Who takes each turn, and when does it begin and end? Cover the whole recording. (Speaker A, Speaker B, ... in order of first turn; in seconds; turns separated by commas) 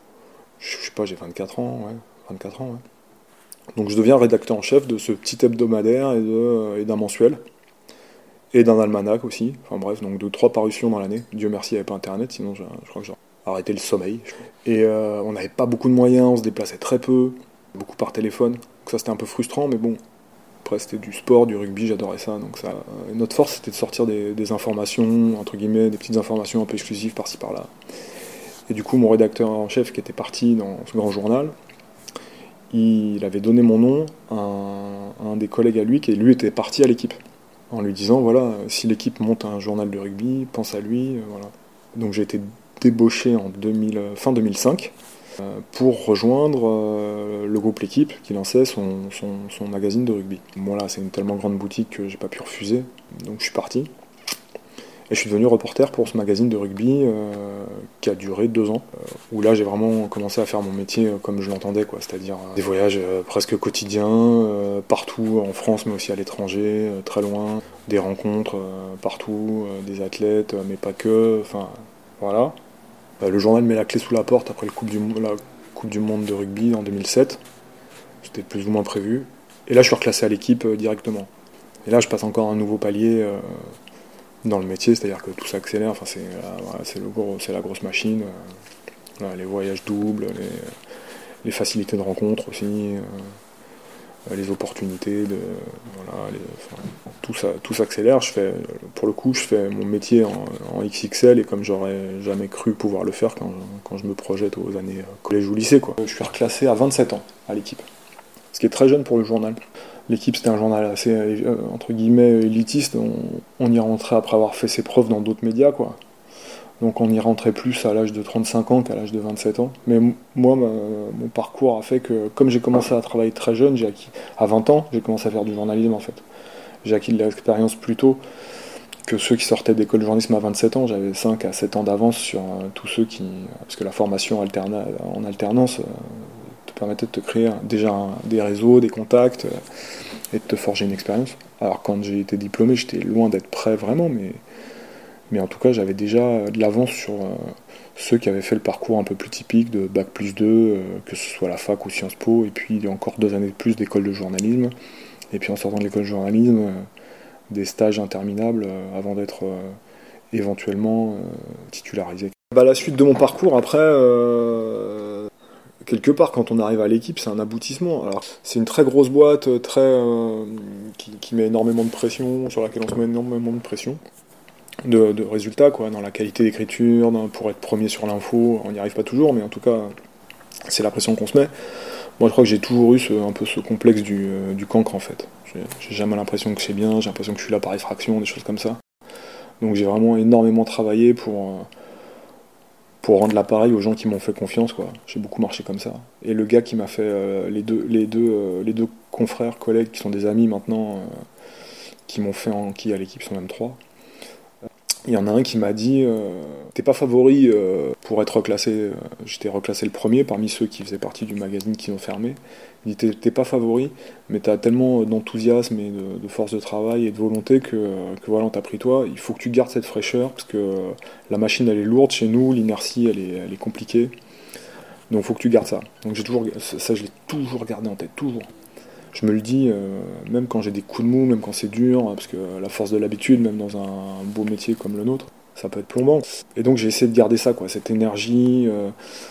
Speaker A: 0.6-2.8, Speaker A: 3.7-7.4, Speaker A: 8.5-20.0, Speaker A: 20.6-27.7, Speaker A: 28.7-31.5, Speaker A: 32.7-37.2, Speaker A: 37.7-53.9, Speaker A: 55.1-72.6, Speaker A: 73.2-77.4, Speaker A: 78.2-81.3, Speaker A: 81.8-83.7, Speaker A: 84.4-88.3, Speaker A: 89.2-90.7, Speaker A: 91.4-93.3, Speaker A: 94.3-107.8, Speaker A: 108.5-116.0, Speaker A: 116.8-126.2, Speaker A: 126.8-128.2, Speaker A: 129.1-135.9, Speaker A: 136.7-139.6, Speaker A: 140.3-144.4, Speaker A: 145.3-154.7, Speaker A: 155.3-156.9, Speaker A: 157.5-159.8, Speaker A: 160.3-165.3, Speaker A: 165.8-174.0, Speaker A: 174.8-179.9, Speaker A: 180.7-181.5, Speaker A: 182.2-188.8, Speaker A: 189.6-191.7, Speaker A: 193.0-201.1, Speaker A: 202.1-203.8, Speaker A: 205.1-224.1, Speaker A: 225.1-228.5, Speaker A: 229.1-238.9